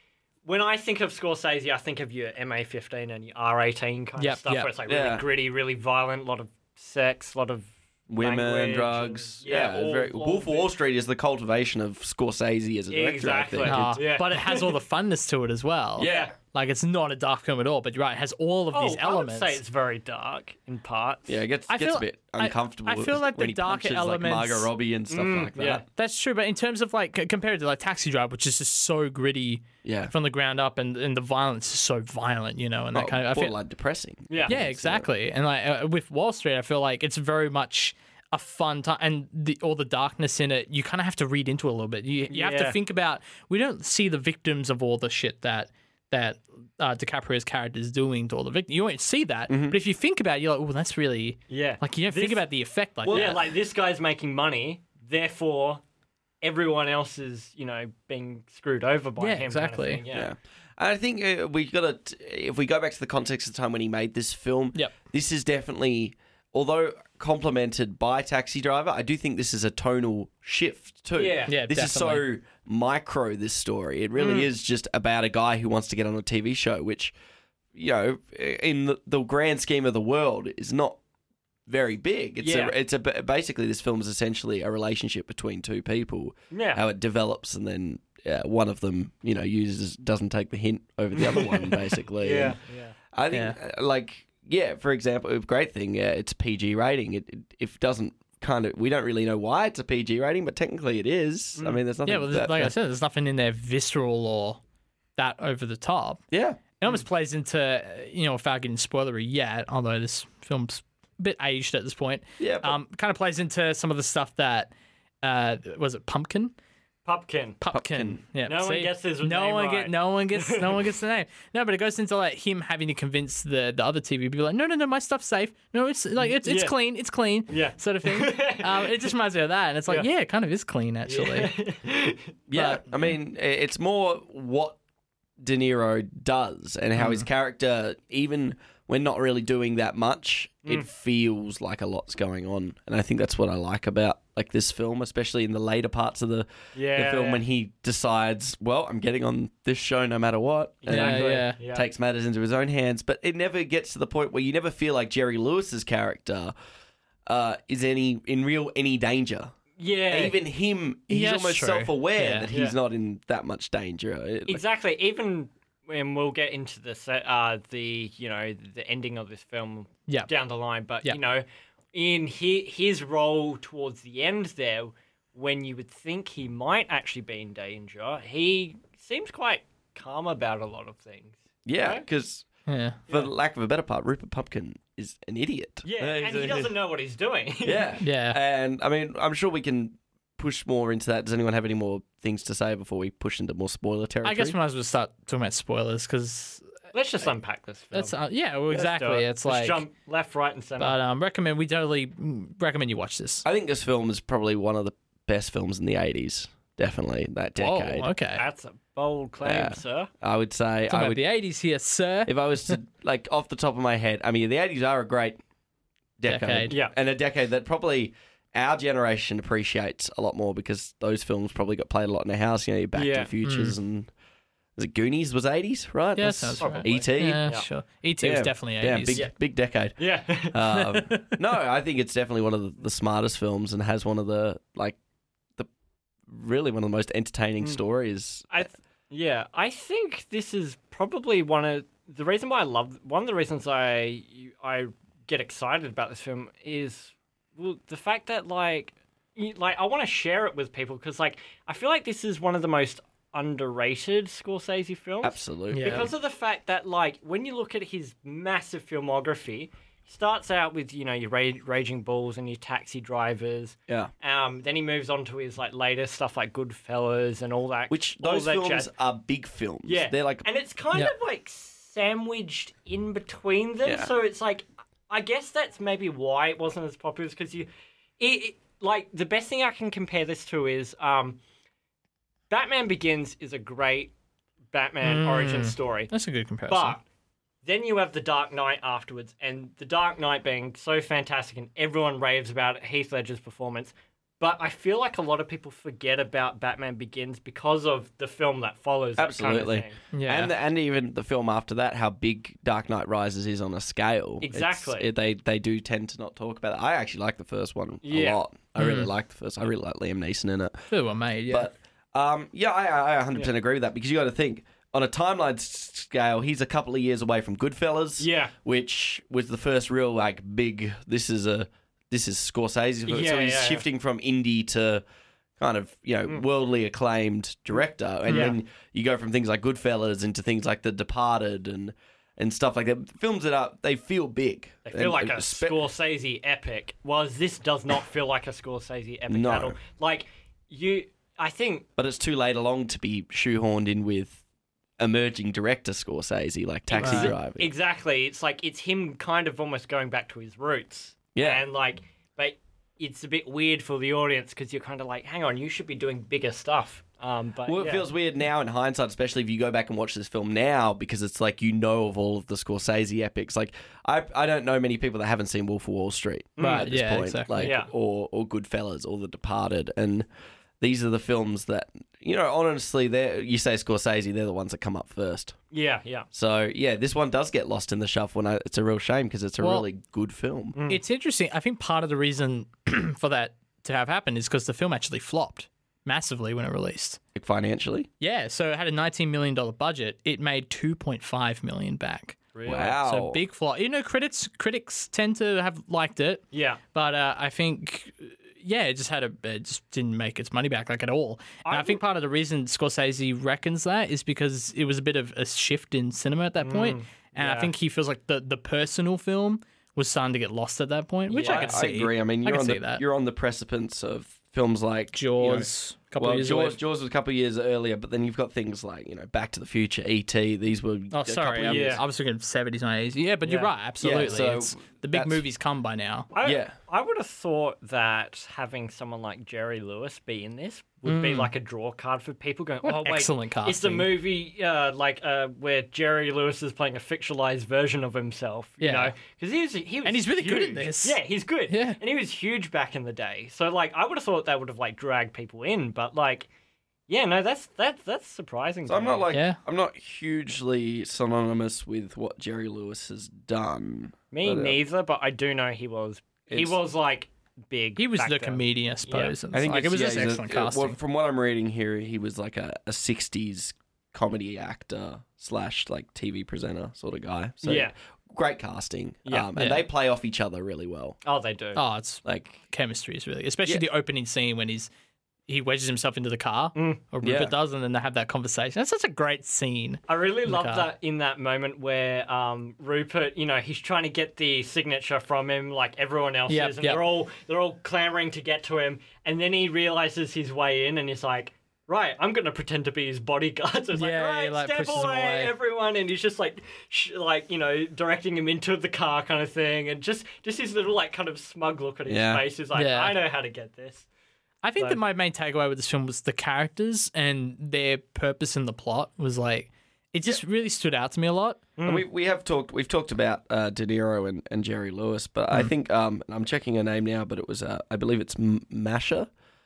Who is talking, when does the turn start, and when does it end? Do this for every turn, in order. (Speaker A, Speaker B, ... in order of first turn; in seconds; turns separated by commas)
Speaker A: 0.4-10.7, Speaker B: 4.2-4.7, Speaker C: 4.8-5.2, Speaker C: 8.1-14.1, Speaker A: 12.9-14.7, Speaker B: 13.6-19.6, Speaker C: 16.0-16.3, Speaker A: 16.0-16.3, Speaker A: 18.7-21.4, Speaker C: 21.3-25.8, Speaker B: 21.7-24.7, Speaker A: 25.1-25.8, Speaker B: 25.9-33.5, Speaker C: 29.8-30.1, Speaker C: 32.9-35.1, Speaker A: 34.3-34.6, Speaker B: 34.5-53.4, Speaker A: 42.3-42.8, Speaker C: 49.5-49.8, Speaker A: 51.5-52.4, Speaker C: 53.0-53.4, Speaker A: 53.1-55.8, Speaker A: 56.4-60.3, Speaker B: 59.2-60.0, Speaker C: 60.1-77.1, Speaker A: 71.2-71.6, Speaker B: 71.5-72.2, Speaker A: 74.2-74.5, Speaker C: 77.7-81.0, Speaker C: 81.7-92.6, Speaker A: 82.4-82.7, Speaker A: 86.5-86.8, Speaker A: 91.1-93.0, Speaker C: 93.1-102.7, Speaker B: 93.3-93.6, Speaker A: 101.5-101.8, Speaker B: 102.0-104.6, Speaker B: 105.2-106.2, Speaker C: 106.3-106.6, Speaker B: 106.8-114.7, Speaker C: 112.4-112.8, Speaker B: 115.2-116.5, Speaker A: 117.0-117.6, Speaker B: 117.6-131.5, Speaker C: 117.7-118.2, Speaker A: 118.5-120.8, Speaker A: 126.2-126.8, Speaker A: 127.5-129.1, Speaker A: 131.1-132.3, Speaker C: 132.5-134.8, Speaker B: 132.5-133.1, Speaker C: 135.4-156.5, Speaker B: 136.9-137.2, Speaker A: 146.7-147.4, Speaker A: 150.8-151.8, Speaker B: 150.9-151.6, Speaker C: 157.2-159.6, Speaker A: 159.8-160.4, Speaker C: 160.1-164.6, Speaker B: 161.1-162.5, Speaker A: 162.5-162.8, Speaker A: 164.5-182.0, Speaker C: 181.7-182.4, Speaker B: 182.7-183.0, Speaker C: 183.1-186.7, Speaker A: 185.8-188.0, Speaker C: 187.6-194.6, Speaker B: 188.0-188.4, Speaker B: 194.2-196.7, Speaker A: 196.9-198.2, Speaker B: 197.9-199.8, Speaker A: 198.7-201.0, Speaker B: 200.8-203.4, Speaker C: 203.4-208.1, Speaker B: 207.6-208.4, Speaker A: 208.3-210.1, Speaker C: 209.4-211.2, Speaker B: 210.9-212.8, Speaker C: 212.2-215.4, Speaker C: 216.2-224.1, Speaker B: 216.2-216.7, Speaker A: 216.7-216.9, Speaker A: 222.9-223.3, Speaker B: 223.4-223.8, Speaker C: 224.8-227.6, Speaker B: 226.2-229.2, Speaker A: 226.6-227.7, Speaker C: 228.2-235.0, Speaker A: 230.0-230.6, Speaker B: 230.9-231.3, Speaker C: 236.3-238.7, Speaker A: 238.5-268.9, Speaker C: 255.2-256.1, Speaker B: 255.7-256.1, Speaker C: 267.9-270.4, Speaker A: 269.9-281.4, Speaker C: 273.8-274.1, Speaker A: 282.5-284.1, Speaker A: 284.7-286.1, Speaker B: 285.0-287.0, Speaker A: 286.7-287.0, Speaker A: 287.6-300.0, Speaker C: 299.2-310.9, Speaker B: 300.1-300.5, Speaker A: 304.4-305.1, Speaker A: 308.0-308.4, Speaker B: 308.8-309.1, Speaker B: 310.9-311.7, Speaker C: 311.5-325.0, Speaker A: 318.2-318.5, Speaker A: 323.1-323.9, Speaker C: 325.6-335.8, Speaker B: 328.3-328.6, Speaker A: 328.3-328.6, Speaker A: 334.9-341.9, Speaker C: 339.3-339.8, Speaker C: 342.0-344.4, Speaker C: 345.0-347.7, Speaker A: 346.9-358.1, Speaker B: 347.0-347.3, Speaker C: 351.3-351.6, Speaker C: 357.6-370.3, Speaker A: 366.6-366.9, Speaker B: 366.6-367.7, Speaker A: 367.6-367.9, Speaker C: 370.8-375.6, Speaker A: 375.7-376.3, Speaker C: 376.3-380.8, Speaker B: 379.6-379.9, Speaker A: 380.7-381.0, Speaker B: 380.9-387.2, Speaker C: 387.3-388.1, Speaker B: 388.2-392.4, Speaker A: 392.5-392.9, Speaker C: 392.6-393.4, Speaker B: 392.9-396.4, Speaker A: 396.5-396.8, Speaker B: 396.9-413.0, Speaker A: 401.6-402.0, Speaker A: 406.6-407.7, Speaker A: 411.3-411.8, Speaker C: 411.5-422.0, Speaker B: 415.1-416.8, Speaker B: 421.1-426.3, Speaker A: 421.6-422.0, Speaker A: 423.4-423.7, Speaker C: 424.0-425.4, Speaker A: 426.3-446.5, Speaker C: 426.4-426.7, Speaker B: 431.0-431.5, Speaker B: 432.8-434.1, Speaker B: 438.8-439.1, Speaker B: 440.0-442.0, Speaker A: 447.1-449.2, Speaker C: 448.9-454.8, Speaker B: 449.3-449.6, Speaker A: 454.3-459.3, Speaker C: 456.5-456.8, Speaker B: 457.9-461.0, Speaker C: 459.5-471.1, Speaker A: 467.6-467.9, Speaker B: 469.5-469.8, Speaker A: 471.2-471.8, Speaker B: 471.7-474.9, Speaker C: 472.2-472.5, Speaker B: 475.5-480.9, Speaker A: 476.7-477.0, Speaker C: 477.2-477.5, Speaker A: 480.1-504.1, Speaker B: 486.5-487.1, Speaker B: 493.9-495.5, Speaker C: 502.1-502.4, Speaker B: 502.7-503.2, Speaker B: 504.6-511.6, Speaker A: 511.8-512.0, Speaker C: 511.8-519.3